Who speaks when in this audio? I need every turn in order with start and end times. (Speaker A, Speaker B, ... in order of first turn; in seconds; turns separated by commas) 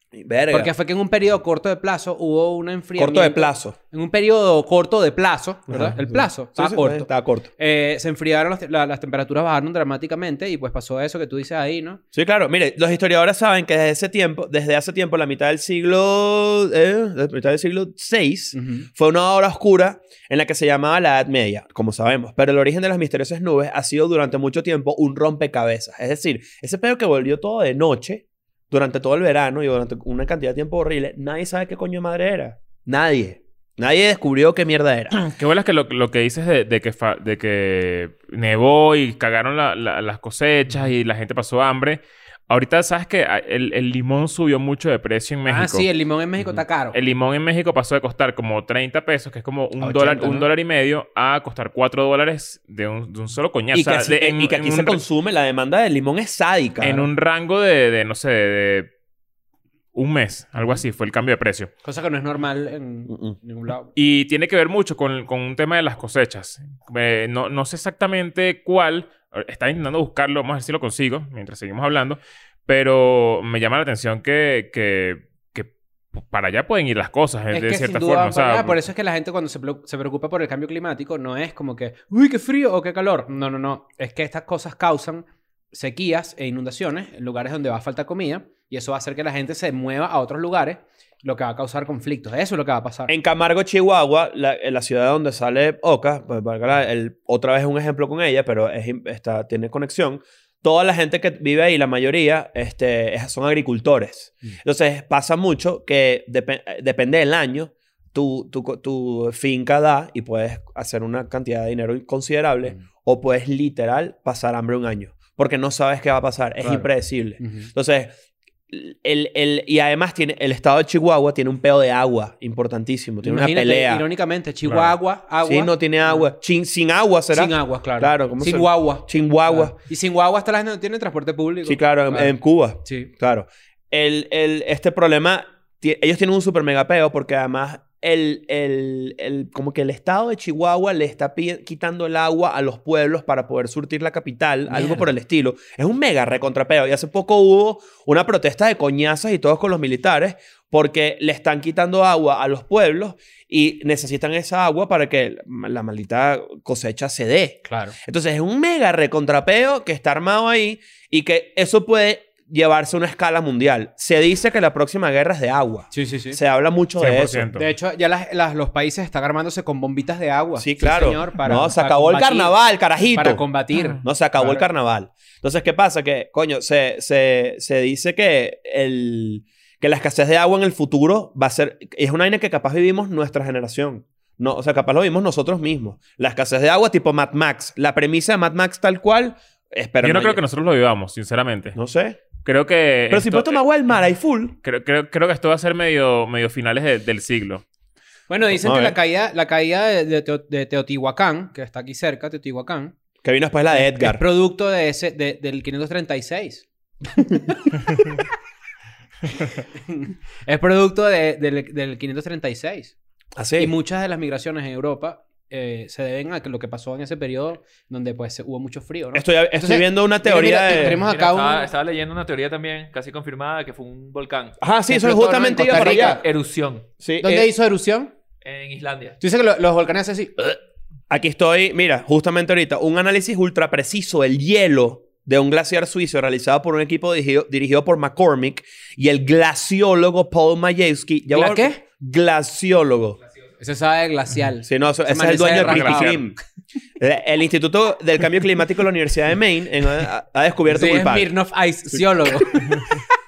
Speaker A: 0.1-0.7, Speaker B: 0.5-12.0, Speaker A: 3.0-3.8, Speaker A: 5.7-7.5, Speaker A: 12.1-35.2, Speaker B: 18.5-18.9, Speaker C: 35.1-45.9, Speaker B: 45.5-47.0, Speaker C: 46.9-55.0, Speaker B: 49.8-50.5, Speaker A: 53.7-57.1, Speaker C: 56.8-58.9, Speaker C: 59.9-61.7, Speaker B: 61.8-63.9, Speaker A: 63.1-63.4, Speaker C: 63.9-78.8, Speaker B: 77.5-93.1, Speaker A: 93.1-118.1, Speaker B: 116.6-116.9, Speaker B: 117.4-117.7, Speaker A: 118.7-124.0, Speaker B: 123.2-126.3, Speaker C: 124.6-124.9, Speaker A: 125.4-129.7, Speaker B: 127.3-133.1, Speaker A: 131.6-167.5, Speaker B: 144.7-145.1, Speaker B: 157.7-157.9, Speaker B: 165.9-166.4, Speaker C: 167.0-167.7, Speaker B: 167.6-172.5, Speaker A: 170.6-173.4, Speaker B: 173.1-174.6, Speaker C: 173.7-174.0, Speaker A: 174.0-190.4, Speaker C: 190.0-191.8, Speaker A: 191.7-192.2, Speaker C: 192.4-193.6, Speaker A: 193.1-194.6, Speaker C: 194.6-197.6, Speaker B: 198.3-202.9, Speaker A: 198.5-199.0, Speaker A: 203.2-204.2, Speaker B: 203.7-206.7, Speaker B: 209.9-212.9, Speaker A: 213.3-213.7, Speaker B: 213.6-221.7, Speaker A: 219.1-221.0, Speaker D: 220.7-226.9, Speaker A: 224.6-226.2, Speaker B: 224.9-226.2, Speaker A: 227.0-227.5, Speaker B: 227.2-228.1, Speaker D: 228.4-229.2, Speaker B: 229.2-230.6, Speaker A: 231.1-243.2, Speaker B: 241.3-241.8, Speaker B: 243.6-246.2, Speaker A: 244.6-246.4, Speaker C: 245.5-246.2, Speaker A: 247.0-251.3, Speaker B: 250.7-252.9